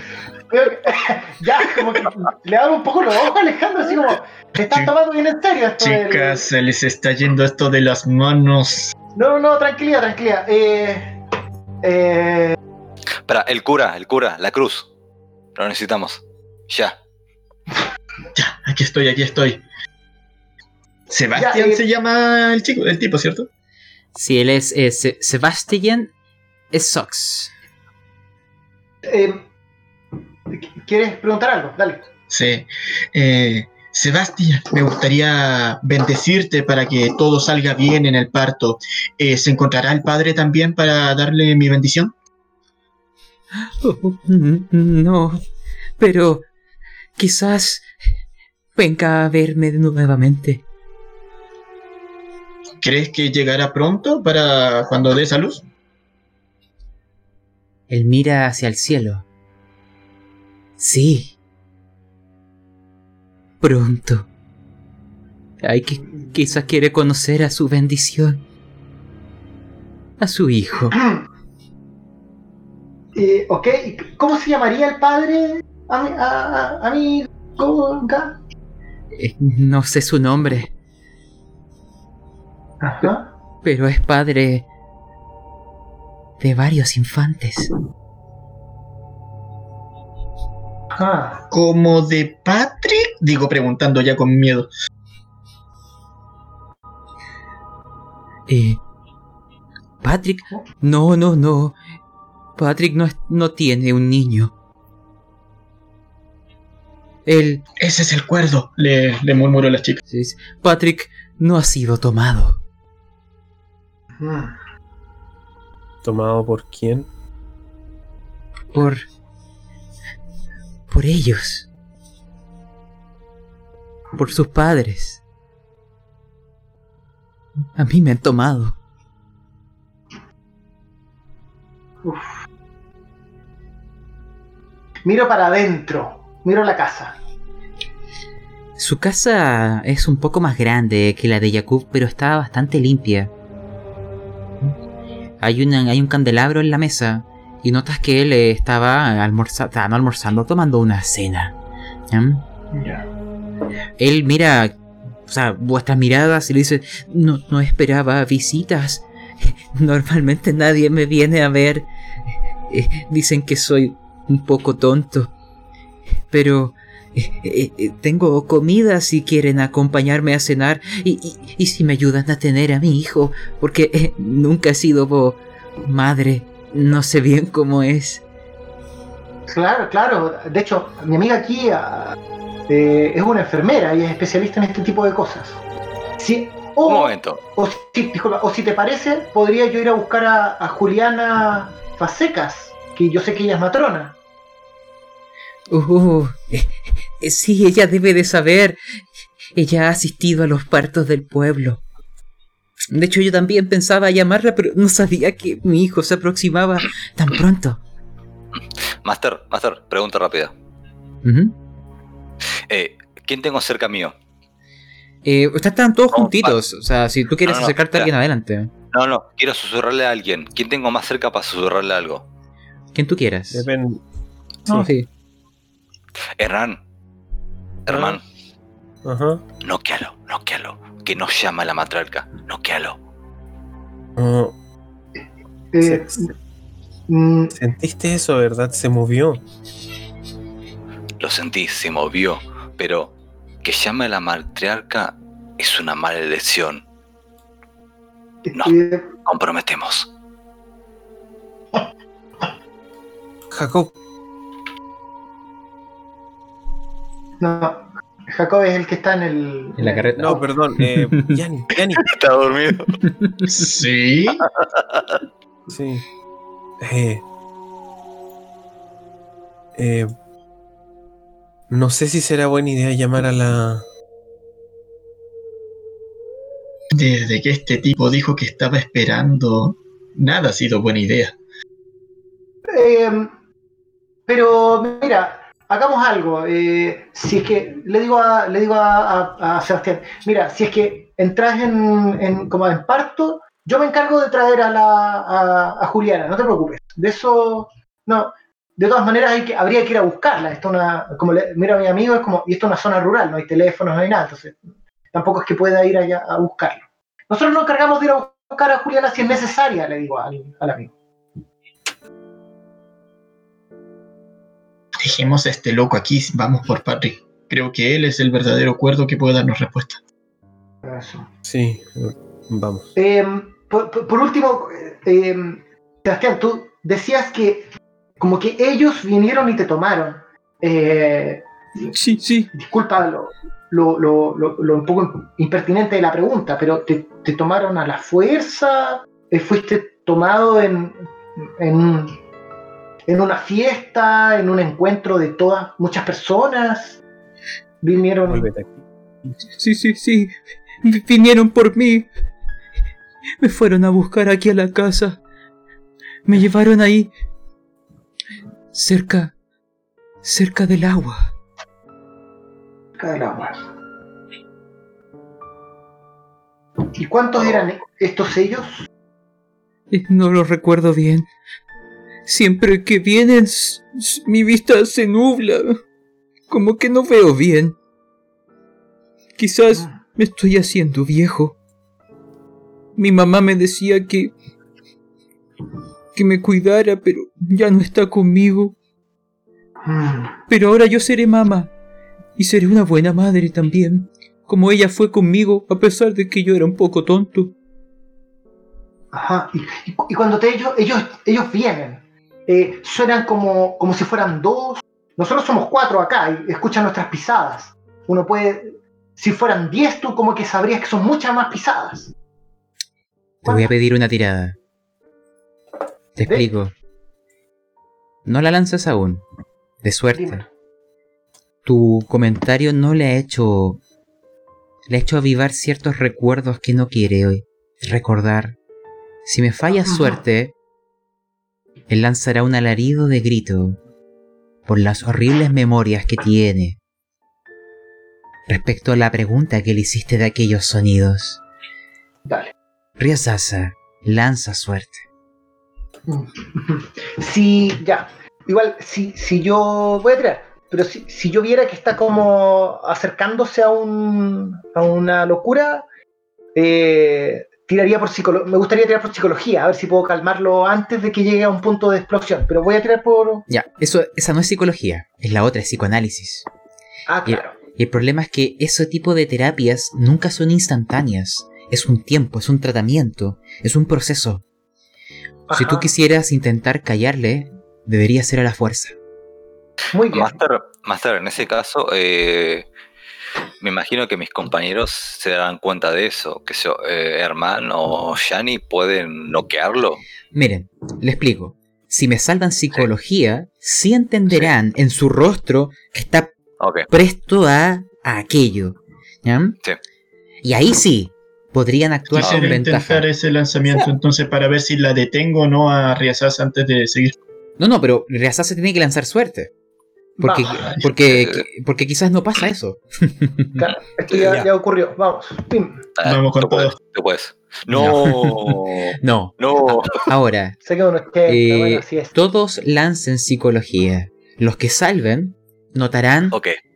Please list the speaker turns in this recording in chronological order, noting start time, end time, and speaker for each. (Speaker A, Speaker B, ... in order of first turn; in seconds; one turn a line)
Speaker A: 0.5-6.5
Speaker B: 4.6-4.9
Speaker B: 5.8-8.9
Speaker A: 9.1-11.2
Speaker A: 11.8-12.6
Speaker C: 13.2-14.9
Speaker C: 15.6-16.9
Speaker B: 18.3-19.6
Speaker B: 21.1-23.5
Speaker A: 21.4-21.8
Speaker D: 24.1-26.1
Speaker D: 26.7-27.5
Speaker A: 29.0-29.5
Speaker A: 30.5-32.0
Speaker B: 32.3-42.1
Speaker D: 43.8-45.4
Speaker D: 46.0-46.5
Speaker D: 47.2-47.9
Speaker D: 48.8-50.6
Speaker B: 52.8-55.6
Speaker D: 57.9-59.2
Speaker D: 60.8-61.3
Speaker D: 63.6-64.3
Speaker D: 65.6-68.4
Speaker D: 70.2-71.0
Speaker A: 70.9-71.2
Speaker A: 73.1-78.4
Speaker D: 79.1-80.7
Speaker A: 82.8-83.3
Speaker D: 83.6-84.7
Speaker D: 86.4-87.7
Speaker A: 90.9-91.4
Speaker B: 91.5-94.7
Speaker D: 98.5-98.8
Speaker D: 100.0-101.8
Speaker D: 102.5-104.5
Speaker D: 107.2-107.6
Speaker B: 107.8-110.0
Speaker D: 110.1-112.6
Speaker A: 114.2-114.6
Speaker E: 116.0-117.1
Speaker D: 118.7-119.0
Speaker D: 120.9-121.7
Speaker D: 124.1-125.2
Speaker D: 127.8-128.8
Speaker A: 132.0-132.4
Speaker A: 135.1-137.2
Speaker D: 138.8-143.3
Speaker D: 145.4-151.6
Speaker D: 152.1-152.4
Speaker A: 152.7-153.1
Speaker D: 154.0-154.7
Speaker D: 155.3-161.9
Speaker D: 162.7-165.3
Speaker D: 166.3-178.2
Speaker A: 179.5-182.2
Speaker A: 182.7-185.6
Speaker A: 186.2-194.2
Speaker C: 186.8-187.4
Speaker D: 195.7-198.8
Speaker D: 199.6-201.8
Speaker D: 202.9-207.8
Speaker C: 209.0-210.5
Speaker D: 211.2-211.6
Speaker C: 212.7-214.1
Speaker D: 215.2-218.7
Speaker C: 216.1-216.6
Speaker C: 217.4-218.1
Speaker C: 218.9-222.2
Speaker D: 222.9-223.7
Speaker E: 223.5-224.0
Speaker D: 224.7-225.1
Speaker C: 226.4-226.8
Speaker C: 227.9-228.2
Speaker E: 227.9-228.2
Speaker E: 229.0-229.4
Speaker C: 229.6-233.0
Speaker E: 234.2-234.6
Speaker A: 235.7-236.3
Speaker E: 235.8-236.3
Speaker A: 237.1-237.5
Speaker E: 237.6-239.4
Speaker C: 241.2-246.8
Speaker A: 248.5-249.1
Speaker C: 249.2-250.1
Speaker E: 253.5-253.9
Speaker A: 257.4-260.4
Speaker D: 259.8-261.4
Speaker E: 260.2-262.1
Speaker C: 262.0-263.0
Speaker D: 263.0-263.4
Speaker B: 263.5-264.5
Speaker C: 264.5-265.2
Speaker E: 265.7-266.1
Speaker E: 266.8-267.2
Speaker E: 269.8-270.1
Speaker E: 271.7-273.8
Speaker B: 276.9-281.3
Speaker A: 282.7-283.3
Speaker A: 284.3-310.9
Speaker B: 315.0-320.0
Speaker A: 320.8-321.3
Speaker E: 321.4-322.9
Speaker A: 322.9-331.9
Speaker D: 331.9-332.5
Speaker A: 332.5-342.2
Speaker A: 343.1-347.0
Speaker A: 347.8-348.5
Speaker E: 348.3-348.7
Speaker D: 349.6-352.1
Speaker D: 353.4-355.2
Speaker D: 356.2-357.1
Speaker D: 358.7-359.3
Speaker D: 360.2-361.3
Speaker A: 363.0-363.6
Speaker A: 366.9-368.9
Speaker D: 369.9-371.3
Speaker D: 372.2-375.8
Speaker D: 376.5-377.8
Speaker D: 379.4-381.6
Speaker A: 379.7-380.0
Speaker D: 383.0-384.3
Speaker D: 386.1-388.7
Speaker A: 389.8-390.4
Speaker D: 390.5-391.7
Speaker D: 392.4-397.5
Speaker A: 399.1-412.1
Speaker D: 413.4-414.6
Speaker D: 416.1-416.7
Speaker D: 418.2-419.2
Speaker D: 419.8-420.4
Speaker A: 420.1-420.5
Speaker D: 421.6-423.8
Speaker D: 424.9-428.6
Speaker D: 429.2-430.6
Speaker A: 429.9-430.2
Speaker D: 431.9-433.8
Speaker D: 434.7-436.8
Speaker D: 438.5-441.4
Speaker A: 442.2-442.5
Speaker D: 443.0-445.1
Speaker A: 446.1-455.8
Speaker A: 456.6-463.4
Speaker D: 463.5-466.5
Speaker A: 467.1-467.6
Speaker D: 467.2-474.4
Speaker A: 475.5-475.9
Speaker D: 475.5-478.9
Speaker A: 479.9-480.4
Speaker C: 480.1-482.6
Speaker C: 483.6-490.0
Speaker D: 490.3-496.3
Speaker C: 496.6-496.9
Speaker D: 496.9-499.6
Speaker D: 500.4-503.1
Speaker B: 502.1-507.1
Speaker C: 502.2-502.5
Speaker D: 507.6-509.5
Speaker A: 510.2-510.8
Speaker D: 510.2-513.6
Speaker C: 511.1-511.4
Speaker A: 513.6-515.8
Speaker E: 514.2-514.5
Speaker C: 516.0-520.1
Speaker B: 516.0-516.7
Speaker D: 517.7-519.4
Speaker D: 519.9-520.6
Speaker A: 520.6-522.1
Speaker D: 521.2-526.4
Speaker C: 526.3-526.6